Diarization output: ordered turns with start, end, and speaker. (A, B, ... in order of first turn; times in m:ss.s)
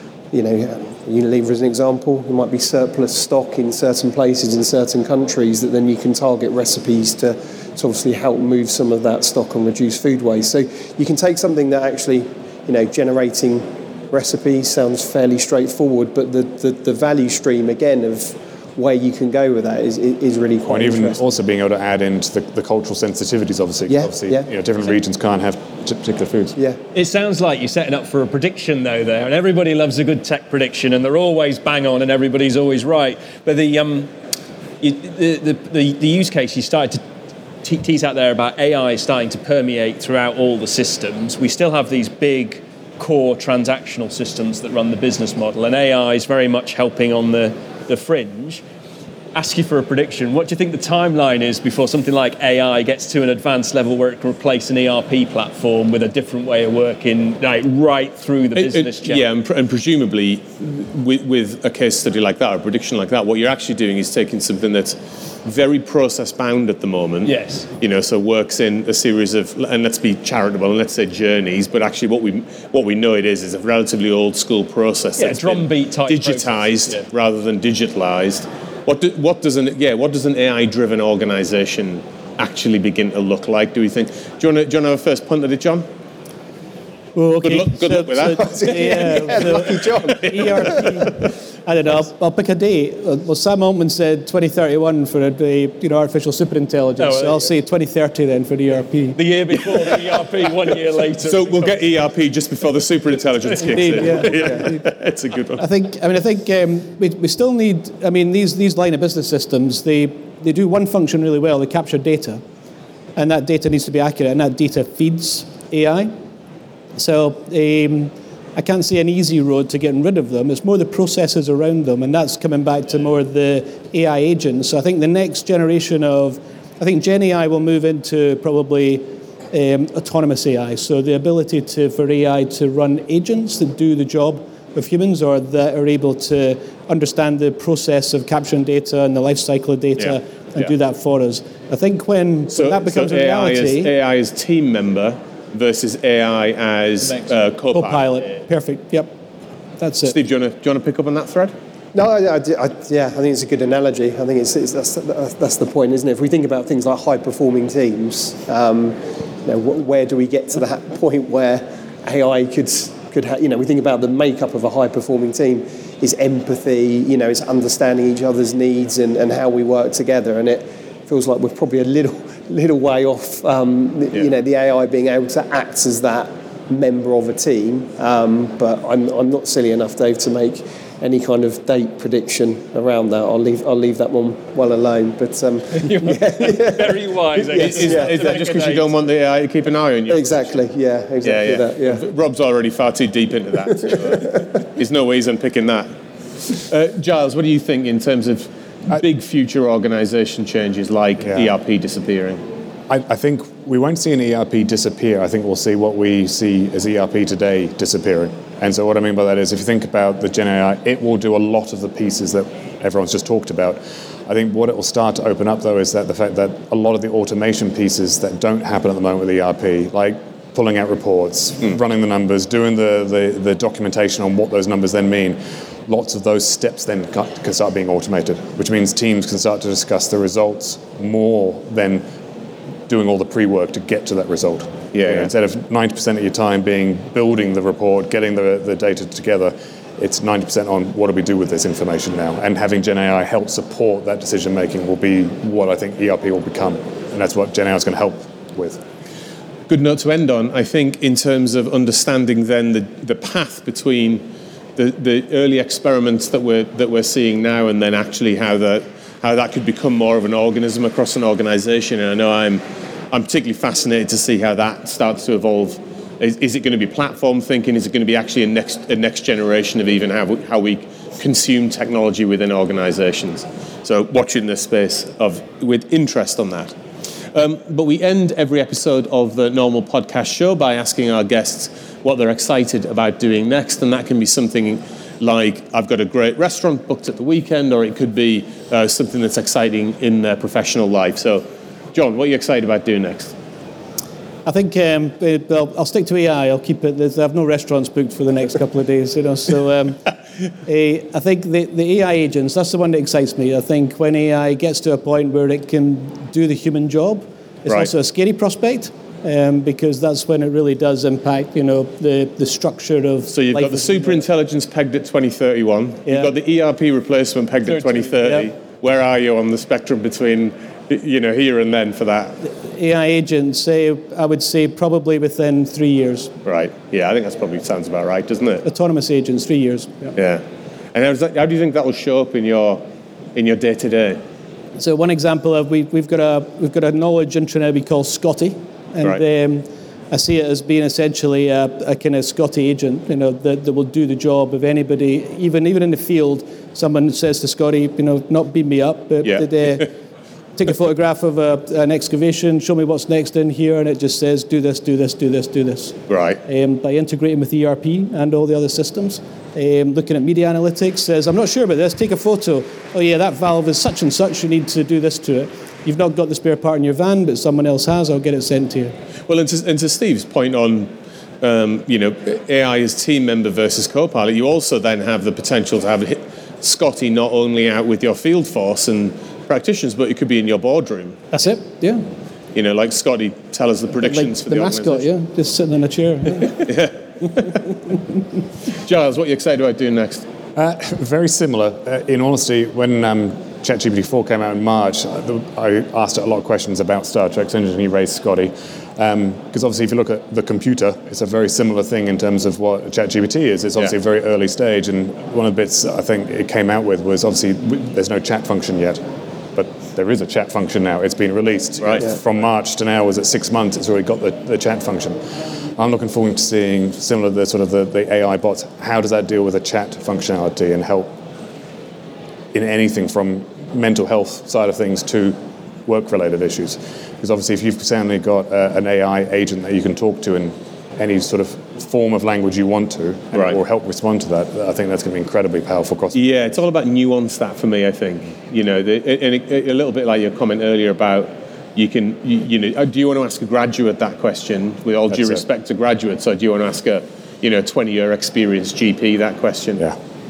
0:00.3-0:21.2 A
0:20.7-0:26.6 B
0:23.9-0:24.5 A
0:27.0-0:34.1 C
0:34.8-0:37.0 C
0:37.6-0:48.6 C
0:49.3-0:59.2 C
0:58.6-1:25.9 D
1:07.2-1:07.7 C
1:15.2-1:17.1 C
1:27.2-1:39.2 E
1:27.4-1:31.1 D
1:28.4-1:30.8 A
1:37.0-1:37.5 C
1:39.1-1:41.9 C
1:41.2-1:45.6 D
1:43.6-1:44.6 C
1:43.7-1:44.9 E
1:45.6-1:52.4 E
1:53.2-1:56.1 E
1:57.0-2:23.9 E
2:22.5-2:28.1 D
2:27.0-2:27.4 C
2:27.7-2:29.1 E
2:29.8-2:30.1 E
2:30.1-2:31.5 D
2:32.0-3:08.2 A
3:05.8-3:09.0 C
3:07.6-3:10.6 D
3:10.1-3:12.0 A
3:11.2-3:15.9 D
3:13.9-3:14.4 A
3:16.5-3:22.4 D
3:21.2-3:21.5 B
3:22.9-3:52.0 B
3:52.9-4:08.8 B
3:54.9-3:55.3 D
4:09.7-4:36.8 D
4:37.3-4:53.4 D
4:54.4-5:00.1 E
5:00.6-5:14.2 E
5:13.3-5:22.4 D
5:16.1-5:16.3 E
5:22.4-5:26.3 E
5:26.4-5:28.6 D
5:28.6-5:30.2 E
5:30.2-5:30.4 D
5:30.9-5:32.8 D
5:33.4-5:34.2 D
5:34.8-5:50.0 E
5:49.2-5:49.9 D
5:50.6-6:09.0 E
5:56.1-5:56.4 D
6:09.3-6:21.3 D
6:21.3-6:22.0 E
6:22.6-6:25.1 D
6:24.0-6:26.8 E
6:26.6-6:27.6 D
6:28.7-6:30.3 D
6:30.6-6:49.0 B
6:49.6-6:55.2 B
6:51.8-6:52.0 D
6:55.8-7:01.2 B
7:02.5-7:16.2 B
7:16.1-7:29.8 D
7:25.1-7:25.4 B